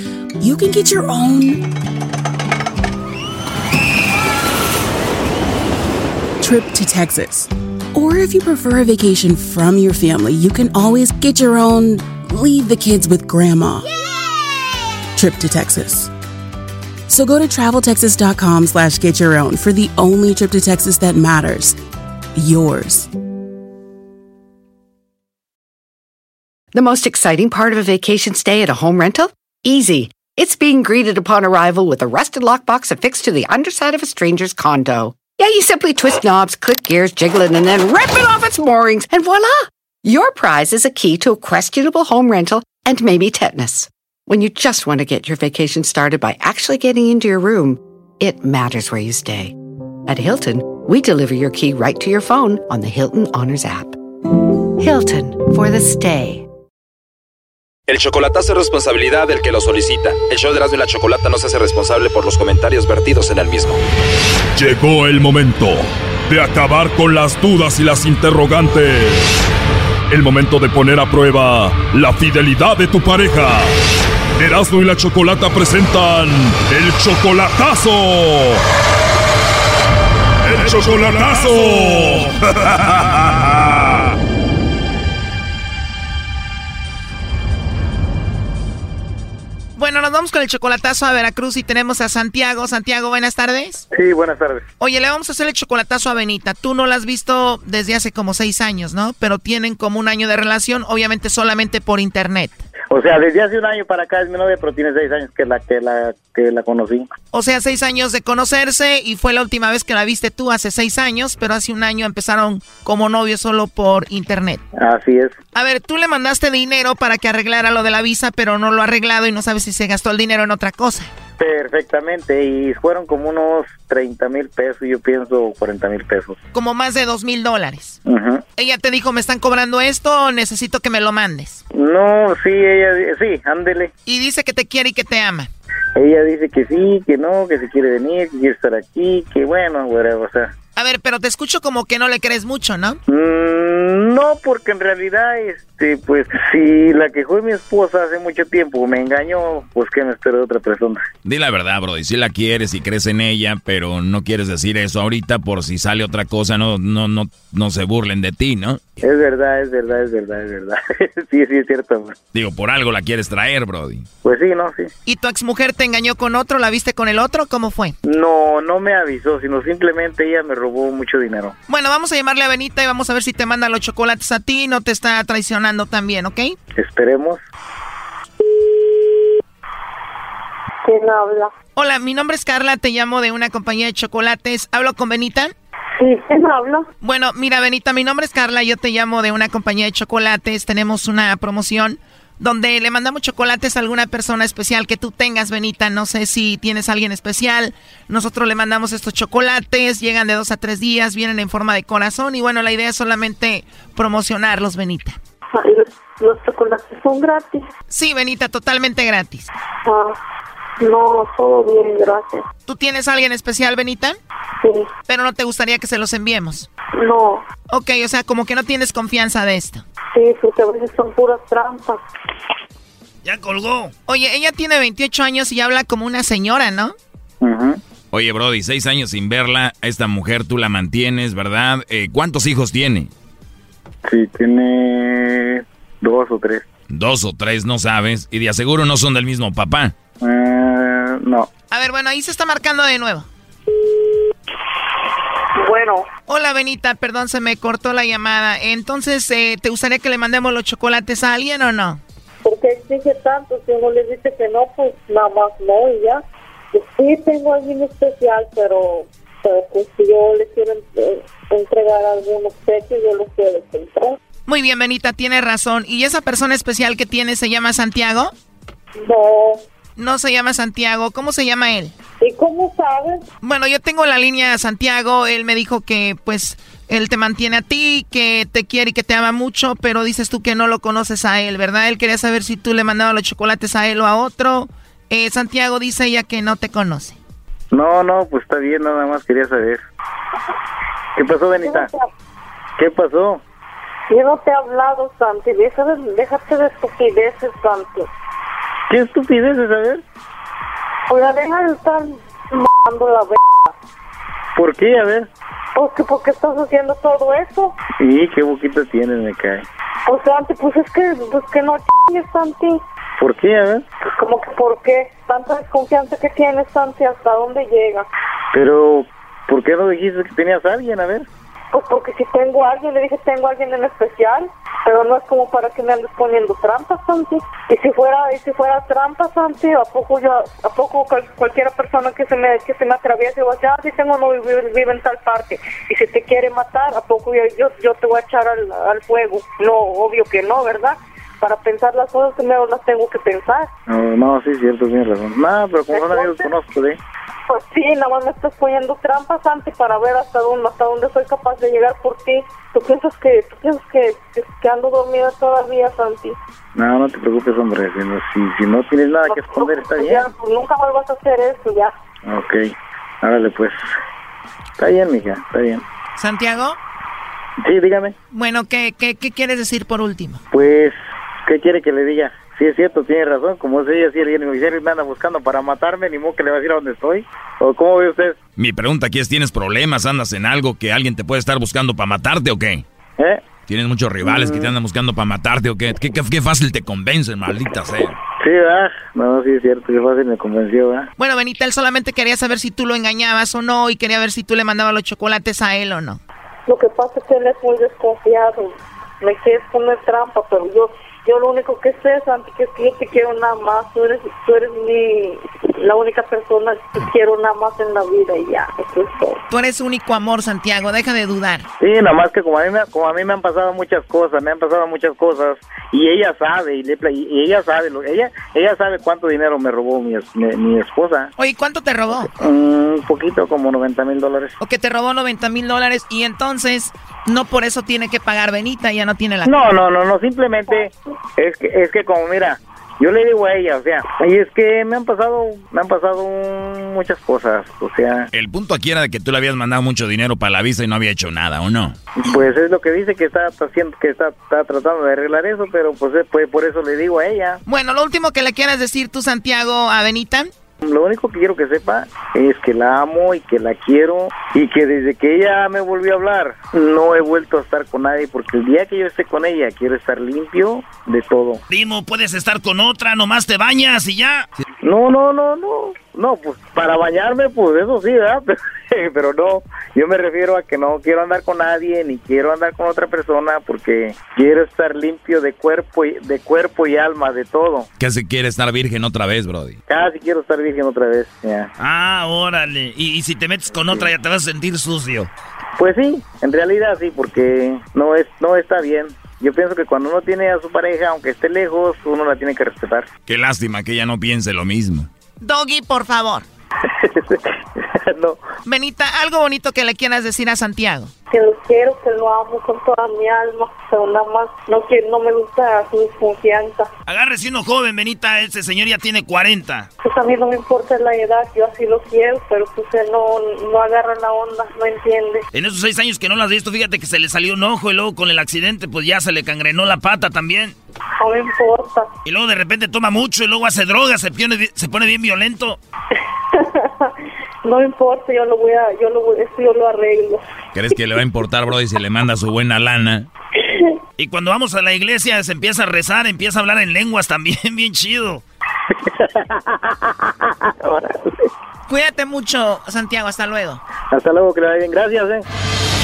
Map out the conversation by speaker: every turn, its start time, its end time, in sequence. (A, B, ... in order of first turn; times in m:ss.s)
0:00.4-0:01.7 A
0:06.4-0:13.9 A
0:15.1-0:16.1 A
0:17.1-0:21.8 A
0:22.3-0:23.1 A
0:26.7-0:49.6 B
0:50.1-0:54.0 B
0:54.8-0:56.5 B
0:57.9-1:03.8 C
1:04.6-1:09.5 D
1:10.1-1:13.8 D
1:14.4-1:18.6 D
1:20.4-1:24.0 D
1:29.8-1:33.8 E
1:33.9-1:34.6 F
1:34.8-1:42.6 E
1:42.9-1:47.1 F
1:47.3-1:54.6 E
1:54.8-1:55.3 F
1:55.5-2:01.1 E
2:01.4-2:06.4 F
2:06.5-2:08.0 E
2:08.0-2:08.4 F
2:08.6-2:11.6 E
2:11.7-2:13.9 F
2:14.0-2:15.5 E
2:16.0-2:20.5 F
2:20.8-2:23.0 E
2:23.1-2:31.0 F
2:31.2-2:39.0 G
2:39.0-2:42.2 F
2:42.3-2:44.1 G
2:44.2-2:44.9 F
2:45.0-2:48.0 E
2:48.0-2:51.5 F
2:51.7-2:56.6 E
2:56.8-2:57.4 F
3:00.8-3:01.5 H
3:01.8-3:05.5 E
3:06.0-3:06.9 H
3:07.0-3:25.2 E
3:25.5-3:27.6 H
3:27.9-3:29.5 E
3:29.8-3:30.2 H
3:30.8-3:32.4 H
3:32.6-3:34.2 E
3:34.6-3:34.9 H
3:35.0-3:36.7 E
3:37.0-3:37.4 H
3:37.7-3:39.8 E
3:40.1-3:42.0 H
3:43.2-3:43.9 I
3:44.0-3:46.9 E
3:47.4-3:47.8 F
3:48.1-3:53.1 G
3:54.0-3:56.6 F
3:56.9-3:59.9 G
4:00.2-4:01.5 F
4:01.7-4:03.3 E
4:05.6-4:06.1 H
4:06.3-4:12.0 E
4:12.4-4:16.2 H
4:16.7-4:24.2 H
4:24.4-4:28.3 E
4:29.0-4:29.6 H
4:30.0-4:32.0 E
4:32.2-4:33.2 H
4:33.4-4:47.2 E
4:47.7-4:49.8 F
4:51.2-4:51.9 F
4:51.6-4:52.1 H
4:52.8-4:53.4 F
4:54.1-4:58.1 H
4:58.9-5:00.0 F
5:01.1-5:03.7 H
5:04.6-5:05.3 F
5:05.7-5:07.8 H
5:08.0-5:09.6 F
5:10.1-5:12.8 H
5:13.2-5:13.8 F
5:14.2-5:18.1 H
5:18.5-5:21.3 F
5:21.7-5:43.7 H
5:43.9-5:47.0 F
5:45.9-5:46.5 H
5:47.5-5:56.4 H
5:56.7-6:00.3 F
5:59.2-6:01.9 H
6:02.2-6:02.7 F
6:03.2-6:03.8 F
6:04.8-6:05.8 F
6:06.2-6:06.8 E
6:07.6-6:08.1 F
6:08.3-6:10.4 E
6:10.5-6:18.4 F
6:18.6-6:22.8 G
6:23.2-6:23.4 F
6:23.7-6:28.2 G
6:24.2-6:24.7 F
6:28.4-6:31.1 F
6:31.2-6:36.2 E
6:36.7-6:38.7 H
6:39.2-6:49.4 H
6:49.5-6:51.7 E
6:51.8-7:01.3 F
7:01.4-7:02.3 E
7:02.1-7:04.6 F
7:04.6-7:09.6 E
7:09.4-7:18.3 F
7:18.3-7:22.0 G
7:22.2-7:27.6 F
7:27.6-7:30.5 E
7:30.8-7:41.6 F
7:41.7-7:44.5 I
7:44.8-7:57.9 F
7:58.0-7:59.8 G
7:59.9-8:01.7 F
8:01.8-8:05.3 I
8:03.7-8:04.1 F
8:05.8-8:13.1 F
8:13.3-8:15.1 G
8:15.4-8:16.4 E
8:17.0-8:18.4 F
8:18.6-8:21.1 E
8:21.3-8:26.9 H
8:27.1-8:29.9 I
8:30.0-8:35.4 H
8:35.5-8:40.7 I
8:41.2-8:42.1 H
8:42.2-8:45.8 I
8:46.5-8:47.1 H
8:47.6-8:50.4 H
8:50.7-8:53.3 G
8:53.6-8:53.9 H
8:54.2-8:58.4 I
8:59.0-9:01.5 F
9:01.9-9:03.8 E
9:04.1-9:05.4 F